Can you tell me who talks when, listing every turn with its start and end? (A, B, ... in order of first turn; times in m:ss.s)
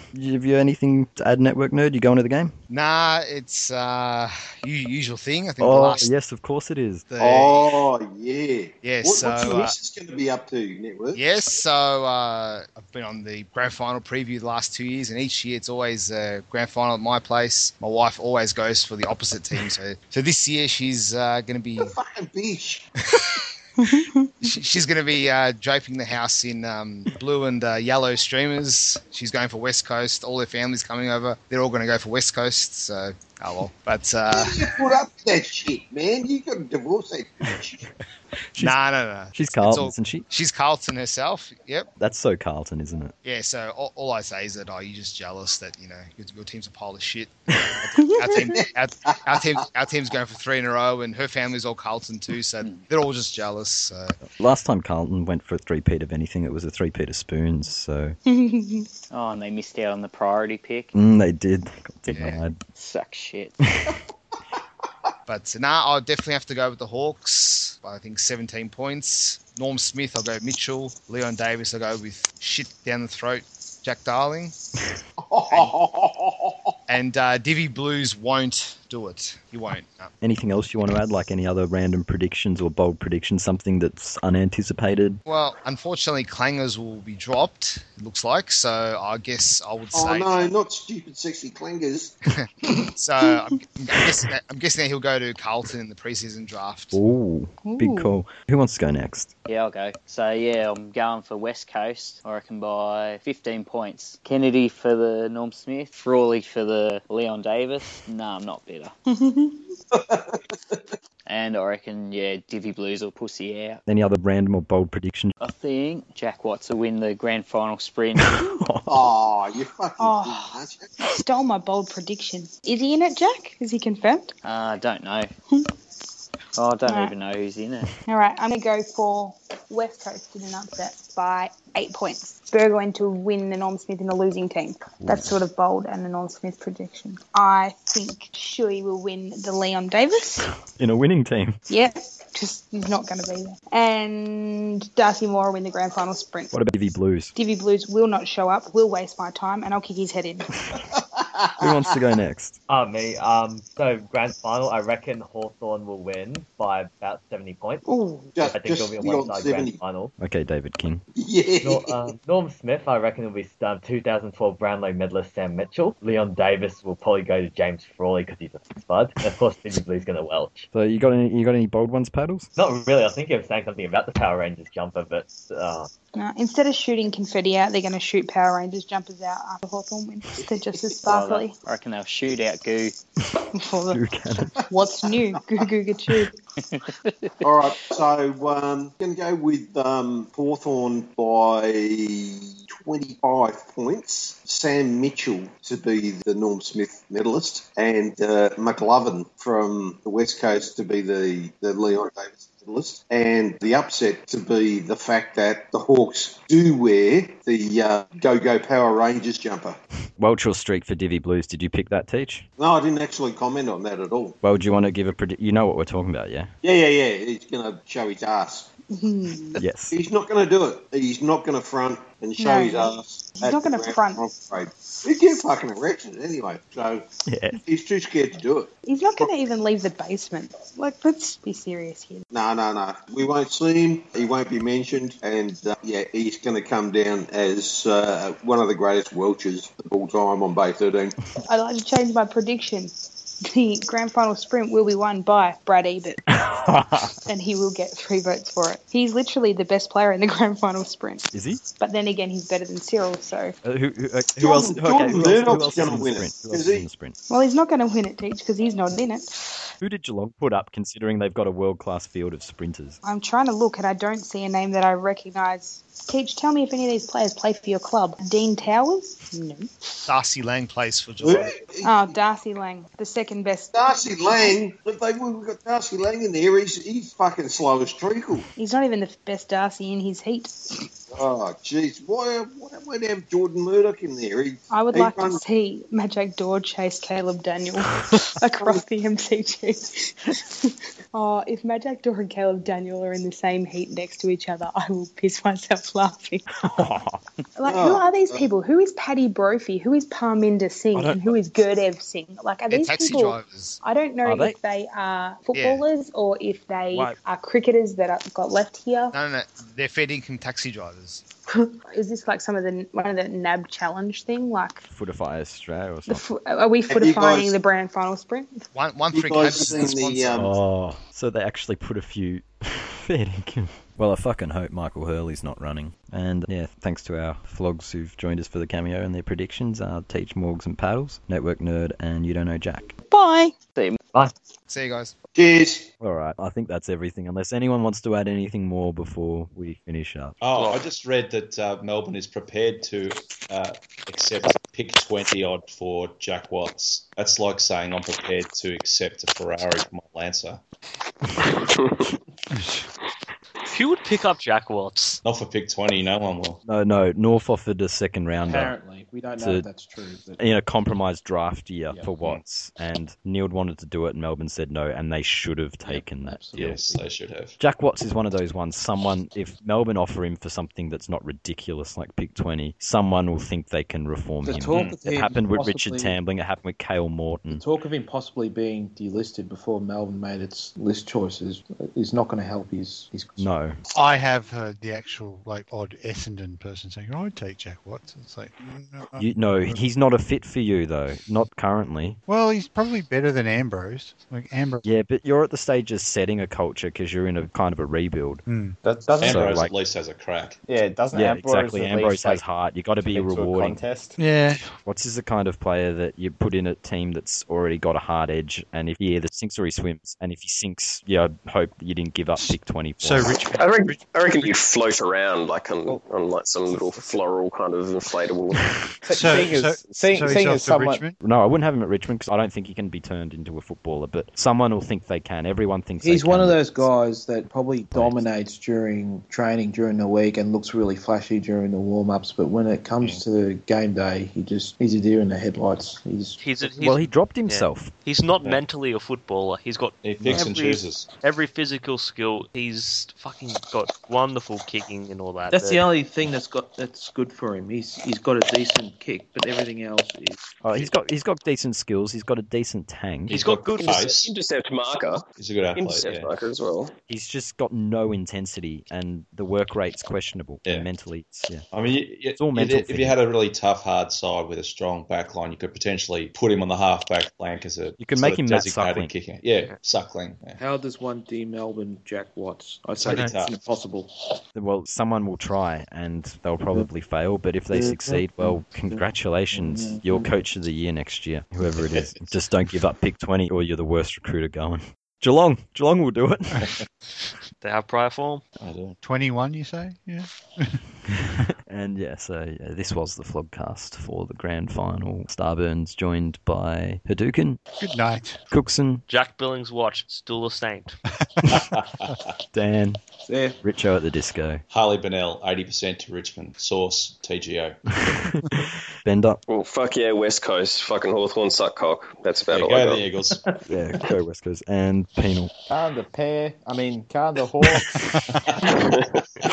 0:00.1-0:02.5 A
0:02.7-0:06.1 B
0:05.6-0:07.1 A
0:07.1-0:07.8 B
0:07.2-0:11.2 C
0:08.8-0:09.8 B
0:11.2-0:21.9 B
0:21.8-0:22.9 C
0:23.1-0:23.4 B
0:23.8-0:24.3 D
0:24.4-0:34.7 B
0:34.3-0:37.8 C
0:38.6-0:41.9 B
0:39.3-0:40.3 A
0:42.0-0:43.1 A
0:43.2-0:54.2 B
0:48.0-0:48.4 D
0:48.5-0:49.6 C
0:52.6-0:52.9 E
0:54.4-0:58.2 A
0:58.3-0:58.9 D
0:59.1-1:00.9 E
1:00.9-1:02.6 A
1:02.1-1:02.4 B
1:02.2-1:03.6 E
1:05.3-1:14.6 B
1:15.2-1:16.7 C
1:16.9-1:20.1 B
1:20.2-1:25.2 A
1:25.3-1:30.5 B
1:29.9-1:32.2 C
1:32.3-1:37.0 B
1:33.3-1:33.5 D
1:36.9-1:39.3 A
1:37.6-1:38.2 D
1:39.5-1:48.9 E
1:49.1-1:49.7 D
1:49.9-1:50.9 C
1:51.3-1:53.8 E
1:53.9-1:55.3 A
1:55.4-1:58.4 E
1:58.2-1:59.0 A
1:58.9-2:00.9 C
2:00.0-2:04.3 D
2:04.4-2:05.3 E
2:06.6-2:07.9 E
2:06.8-2:07.2 D
2:08.0-2:20.5 D
2:15.0-2:15.4 A
2:20.7-2:21.6 A
2:21.7-2:26.5 D
2:26.5-2:27.3 A
2:27.4-2:30.6 D
2:30.9-2:31.9 C
2:31.6-2:32.6 A
2:32.7-2:37.8 F
2:37.8-2:38.4 D
2:38.4-2:39.8 C
2:38.4-2:40.1 F
2:40.2-2:41.0 A
2:41.2-2:42.2 C
2:41.6-2:50.7 F
2:50.7-2:52.5 A
2:52.6-2:55.9 F
2:56.2-3:01.6 D
3:01.1-3:03.0 E
3:03.5-3:04.0 D
3:03.9-3:04.5 A
3:04.7-3:06.3 D
3:06.6-3:07.9 E
3:07.4-3:29.8 C
3:30.2-3:32.5 A
3:32.6-3:34.4 C
3:34.4-3:36.5 A
3:36.6-3:38.7 C
3:38.9-3:39.6 D
3:39.6-3:40.0 A
3:39.9-3:47.1 C
3:42.4-3:44.3 D
3:47.3-3:47.6 A
3:47.6-3:48.7 C
3:48.8-3:52.3 D
3:52.3-4:01.2 C
4:01.5-4:02.9 D
4:03.4-4:06.2 D
4:06.3-4:07.1 A
4:07.3-4:13.6 D
4:11.3-4:11.6 A
4:13.6-4:17.2 A
4:14.4-4:16.9 C
4:17.3-4:19.7 D
4:19.8-4:23.0 A
4:23.0-4:30.1 D
4:30.1-4:31.5 B
4:31.2-4:32.1 C
4:31.8-4:33.7 D
4:33.7-4:38.4 C
4:34.3-4:34.5 D
4:38.6-4:40.9 D
4:41.1-4:45.4 C
4:44.7-4:56.5 D
4:56.6-4:57.2 A
4:57.6-5:09.1 D
4:57.7-4:58.5 C
5:00.9-5:01.4 A
5:02.7-5:03.8 B
5:04.2-5:04.6 A
5:05.5-5:05.8 B
5:06.9-5:07.2 A
5:09.1-5:11.2 B
5:11.5-5:14.8 D
5:14.9-5:16.2 A
5:16.1-5:18.7 D
5:16.9-5:17.6 C
5:18.7-5:20.5 B
5:19.1-5:20.5 C
5:20.3-5:33.0 A
5:33.1-5:33.5 D
5:34.7-5:35.2 B
5:35.4-5:35.9 C
5:36.0-5:40.4 A
5:40.4-5:50.6 G
5:40.6-5:40.8 H
5:52.5-5:52.9 I
5:53.7-5:55.2 H
5:55.2-5:56.6 G
5:56.6-5:58.8 A
5:58.4-6:00.6 J
5:59.4-5:59.7 A
6:00.4-6:06.7 A
6:05.8-6:07.1 J
6:06.5-6:07.6 G
6:07.6-6:17.6 A
6:14.4-6:16.2 J
6:17.5-6:23.5 J
6:23.4-6:23.8 A
6:23.9-6:29.8 I
6:29.2-6:32.2 A
6:32.3-6:34.8 I
6:34.8-6:38.4 A
6:38.5-6:38.8 I
6:38.8-6:39.5 K
6:39.2-6:40.6 G
6:39.2-6:39.7 A
6:40.7-6:42.4 K
6:41.1-6:43.8 A
6:43.1-6:44.2 K
6:44.2-6:44.8 I
6:44.8-6:53.4 A
6:52.4-6:54.2 I
6:53.6-6:58.7 L
6:59.0-7:01.0 K
6:59.1-7:01.2 I
7:01.2-7:06.9 A
7:06.0-7:16.4 J
7:07.9-7:08.2 A
7:16.4-7:25.9 H
7:16.8-7:17.9 A
7:20.0-7:21.1 G
7:25.4-7:30.6 J
7:30.6-7:33.4 A
7:33.3-7:34.2 H
7:33.3-7:34.3 G
7:33.8-7:37.0 L
7:35.4-7:36.3 G
7:37.1-7:41.7 A
7:40.6-7:40.9 G
7:41.7-7:50.6 G
7:42.4-7:43.2 A
7:48.0-7:49.1 A
7:50.6-7:54.1 J
7:53.0-7:53.6 G
7:54.6-8:06.7 A
7:57.7-8:00.3 J
8:01.7-8:02.3 G
8:07.6-8:08.5 H
8:08.6-8:09.0 G
8:09.0-8:11.4 I
8:11.7-8:17.6 A
8:17.8-8:18.4 I
8:18.5-8:19.0 A
8:19.1-8:21.0 H
8:21.2-8:22.2 I
8:21.5-8:22.2 G
8:22.5-8:23.0 A
8:23.2-8:23.6 J
8:23.6-8:24.6 A
8:24.7-8:28.0 G
8:28.0-8:29.4 A
8:29.5-8:33.0 L
8:32.5-8:33.4 G
8:33.7-8:35.5 A
8:35.7-8:38.3 K